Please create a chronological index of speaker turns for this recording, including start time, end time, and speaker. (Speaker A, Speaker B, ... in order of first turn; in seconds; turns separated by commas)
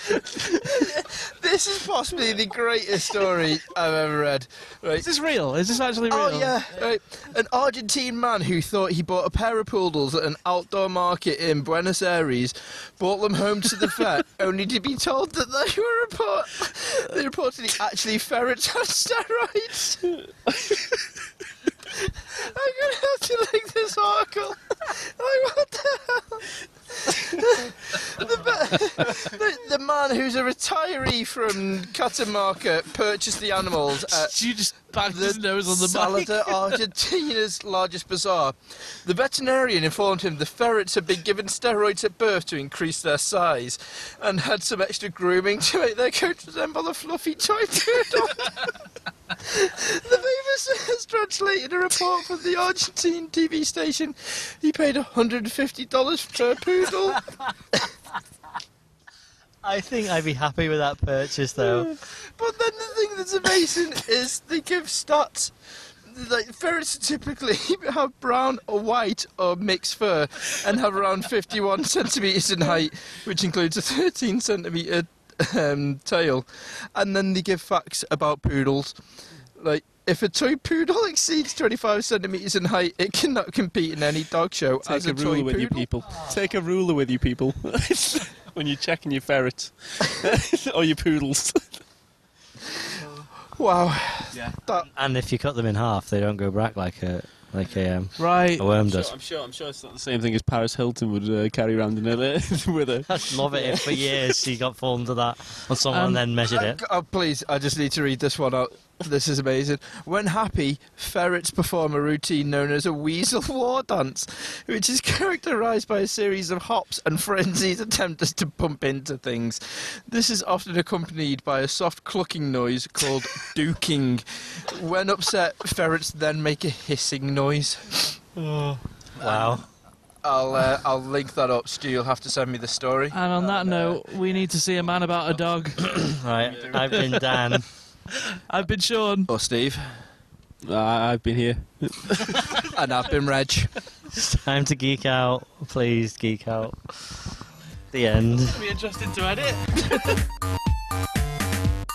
Speaker A: 0.2-5.1, Speaker B: 5.0-6.5, Speaker A: 6.1-20.1, Speaker A: 21.9-34.4, Speaker B: 34.0-36.7, Speaker A: 34.9-48.7, Speaker A: 49.4-57.2, Speaker C: 59.6-61.9, Speaker A: 61.6-79.0, Speaker A: 79.6-85.9, Speaker D: 84.8-91.8, Speaker A: 93.5-94.9, Speaker C: 94.8-99.1, Speaker B: 98.2-98.7, Speaker D: 98.8-104.0, Speaker C: 103.1-106.8, Speaker B: 105.9-106.2, Speaker A: 106.4-128.1, Speaker D: 128.4-128.8, Speaker A: 129.2-129.6, Speaker C: 129.2-129.6, Speaker A: 130.2-133.2, Speaker B: 133.1-135.9, Speaker C: 135.8-137.7, Speaker D: 136.4-136.8, Speaker A: 136.5-136.8, Speaker B: 136.9-137.4, Speaker B: 138.5-139.3, Speaker A: 139.3-139.9, Speaker D: 140.6-142.5, Speaker A: 142.6-143.8, Speaker C: 144.1-147.2, Speaker C: 147.9-148.6, Speaker B: 148.5-150.2